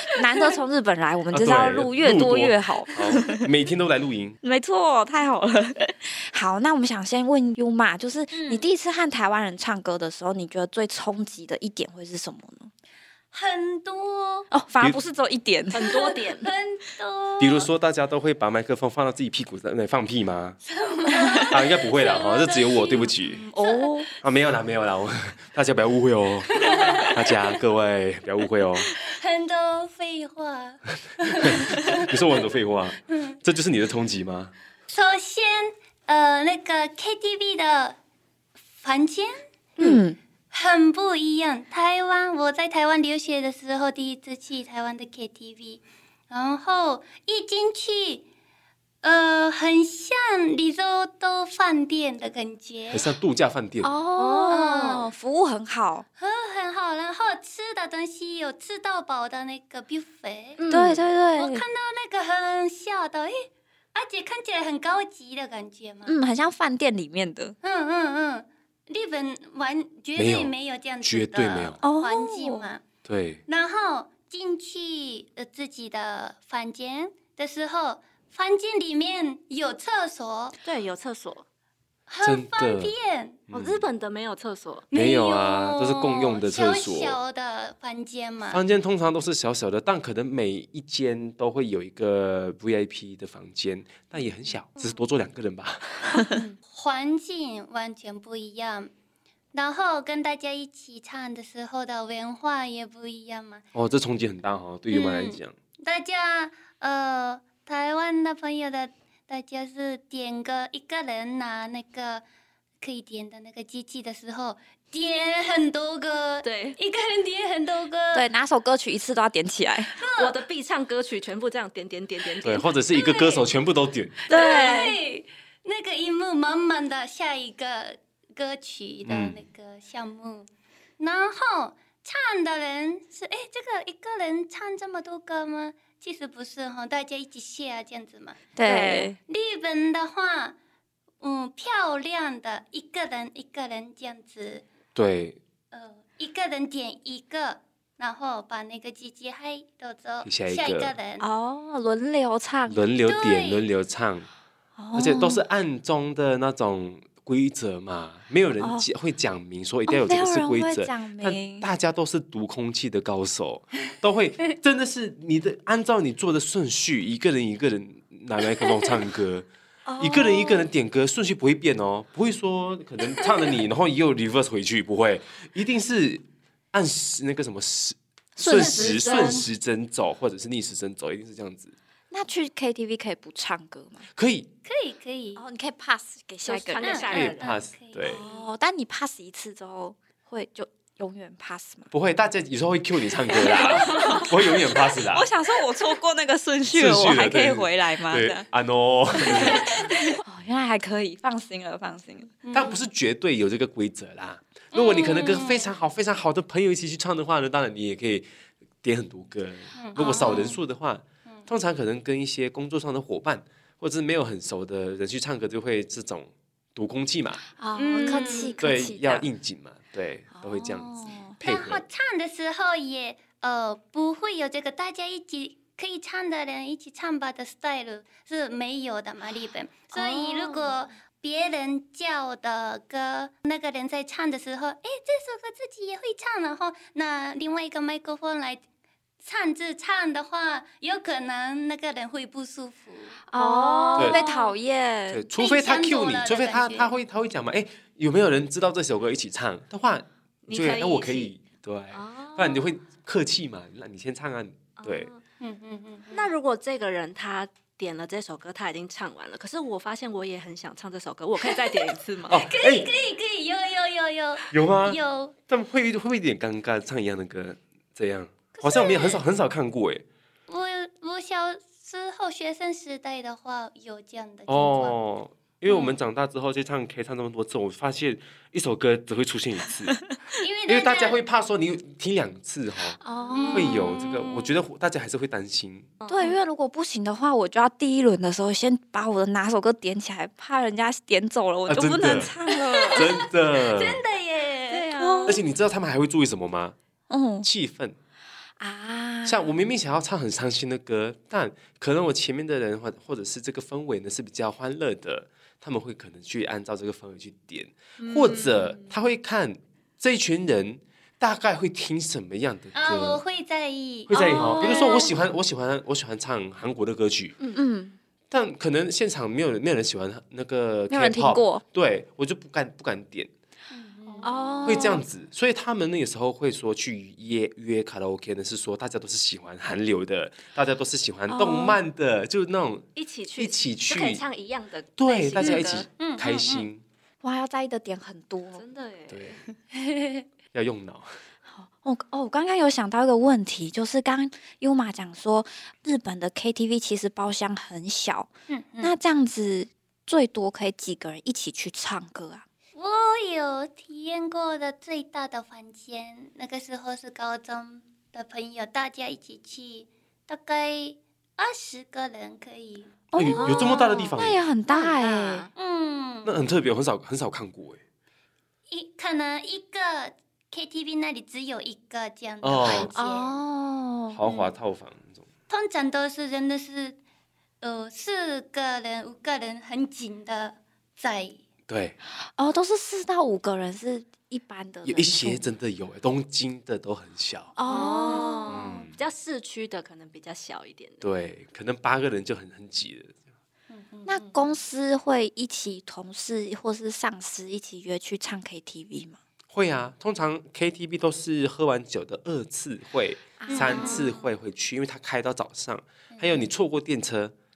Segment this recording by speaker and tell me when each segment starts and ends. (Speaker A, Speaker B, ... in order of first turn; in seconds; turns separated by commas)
Speaker A: 0.1-3.4, Speaker B: 1.3-4.4, Speaker A: 4.4-12.7, Speaker C: 8.3-8.7, Speaker C: 13.3-14.5, Speaker A: 14.5-16.1, Speaker D: 15.7-16.5, Speaker C: 15.8-17.7, Speaker B: 17.4-20.6, Speaker C: 20.7-24.1, Speaker B: 21.5-23.4, Speaker A: 23.4-24.1, Speaker B: 24.2-28.9, Speaker C: 26.5-27.1, Speaker C: 29.1-32.0, Speaker B: 31.5-34.5, Speaker C: 33.1-33.3, Speaker C: 34.9-38.0, Speaker C: 38.8-39.3, Speaker A: 39.8-40.2, Speaker C: 40.5-48.2, Speaker C: 49.0-53.0, Speaker B: 52.9-53.9, Speaker A: 53.8-56.0, Speaker D: 54.2-54.6, Speaker C: 54.5-55.1, Speaker C: 56.2-60.6, Speaker D: 60.6-61.0, Speaker A: 60.7-61.6, Speaker C: 61.3-66.2, Speaker A: 66.0-67.5, Speaker C: 67.6-72.8, Speaker B: 70.2-71.8, Speaker A: 71.8-72.7, Speaker B: 73.0-73.4, Speaker C: 73.5-80.5, Speaker D: 80.6-81.4, Speaker C: 82.1-83.4, Speaker B: 82.2-82.9, Speaker B: 83.5-83.9, Speaker D: 83.5-84.9, Speaker C: 84.9-88.6, Speaker B: 84.9-87.2, Speaker B: 88.5-96.2, Speaker C: 96.3-98.9, Speaker C: 99.5-103.6, Speaker B: 103.7-105.5, Speaker C: 104.9-112.2, Speaker C: 112.8-118.2, Speaker D: 116.4-116.8, Speaker A: 118.1-120.0, Speaker C: 119.9-120.4, Speaker D: 120.1-122.7, Speaker B: 122.4-124.2, Speaker C: 122.9-123.5, Speaker C: 124.3-140.5, Speaker A: 124.3-125.0, Speaker D: 124.3-124.8, Speaker B: 129.0-129.4, Speaker A: 138.6-139.2, Speaker D: 138.6-139.1, Speaker C: 141.2-144.7, Speaker B: 144.9-145.4, Speaker C: 145.7-151.3, Speaker B: 150.2-150.9, Speaker A: 151.2-152.8, Speaker B: 152.7-154.2, Speaker C: 153.0-153.7, Speaker A: 154.8-155.4, Speaker B: 154.9-169.5, Speaker A: 158.6-158.9, Speaker A: 159.9-161.7, Speaker A: 169.9-170.7, Speaker B: 170.0-181.7, Speaker A: 178.4-179.4, Speaker D: 178.5-179.4, Speaker A: 182.1-184.1, Speaker B: 184.1-184.5, Speaker C: 184.6-185.4, Speaker A: 185.3-187.2, Speaker D: 186.4-187.5, Speaker C: 186.8-188.5, Speaker B: 187.1-188.2, Speaker A: 188.1-191.9, Speaker B: 191.9-195.3, Speaker A: 193.3-198.5, Speaker C: 193.8-194.1, Speaker B: 196.7-199.6, Speaker A: 199.3-199.6, Speaker C: 199.3-199.6, Speaker A: 200.2-202.3, Speaker C: 202.4-202.8, Speaker B: 202.5-208.3, Speaker C: 204.7-205.7, Speaker B: 208.8-217.4, Speaker C: 209.7-210.6, Speaker A: 210.0-210.5, Speaker A: 217.6-219.3, Speaker C: 217.8-218.6, Speaker B: 218.0-221.8, Speaker A: 220.3-221.4, Speaker C: 221.4-238.6, Speaker A: 229.9-230.7, Speaker C: 239.2-243.2, Speaker A: 243.3-245.3, Speaker D: 243.3-244.5, Speaker B: 245.1-255.1, Speaker C: 245.4-247.0, Speaker D: 250.5-251.3, Speaker D: 251.9-252.8, Speaker D: 254.8-255.2, Speaker C: 255.4-256.3, Speaker D: 256.1-262.4, Speaker B: 262.3-262.9, Speaker C: 262.3-265.4, Speaker B: 264.5-270.0, Speaker C: 268.5-269.2, Speaker C: 270.5-275.0, Speaker B: 274.5-280.0, Speaker C: 280.4-281.2, Speaker B: 280.7-283.0, Speaker A: 283.0-283.9, Speaker C: 283.3-284.0, Speaker B: 283.5-285.9, Speaker D: 286.0-286.4, Speaker A: 286.1-293.1, Speaker B: 291.7-292.3, Speaker B: 292.9-294.0, Speaker D: 293.8-295.4, Speaker A: 294.9-295.4, Speaker B: 295.3-296.8, Speaker A: 297.1-297.5, Speaker B: 297.4-297.9, Speaker A: 298.6-299.5, Speaker B: 299.2-313.2, Speaker C: 312.7-315.1, Speaker B: 314.1-317.4, Speaker A: 314.1-315.1, Speaker A: 317.5-318.0, Speaker B: 318.3-323.3, Speaker A: 320.9-321.6, Speaker C: 323.7-324.5, Speaker D: 324.0-324.9, Speaker A: 324.2-325.0, Speaker B: 324.6-334.2, Speaker A: 331.3-331.8, Speaker D: 332.9-335.9, Speaker B: 335.0-336.8, Speaker C: 335.4-336.7, Speaker A: 337.2-338.6, Speaker D: 338.5-339.4, Speaker B: 339.1-339.4, Speaker C: 339.7-340.2, Speaker B: 340.5-341.1, Speaker A: 341.5-348.3, Speaker C: 348.5-348.9, Speaker A: 348.8-352.4, Speaker C: 352.7-363.0, Speaker A: 363.1-365.4, Speaker B: 363.1-364.4, Speaker D: 363.3-365.5, Speaker C: 365.5-366.4, Speaker B: 366.2-367.8, Speaker C: 368.7-373.4, Speaker B: 372.4-372.9, Speaker A: 372.9-374.2, Speaker B: 374.1-375.2, Speaker C: 374.2-374.5, Speaker C: 375.5-377.0, Speaker C: 377.6-381.4, Speaker B: 381.7-381.9, Speaker A: 382.4-385.5, Speaker B: 384.8-387.5, Speaker A: 387.6-388.6, Speaker D: 387.7-391.1, Speaker B: 388.5-388.9, Speaker B: 391.0-393.1, Speaker C: 393.7-394.6, Speaker A: 394.1-399.2, Speaker B: 399.5-407.3, Speaker A: 403.4-404.2, Speaker C: 403.4-404.1, Speaker D: 403.7-404.1, Speaker C: 406.1-406.5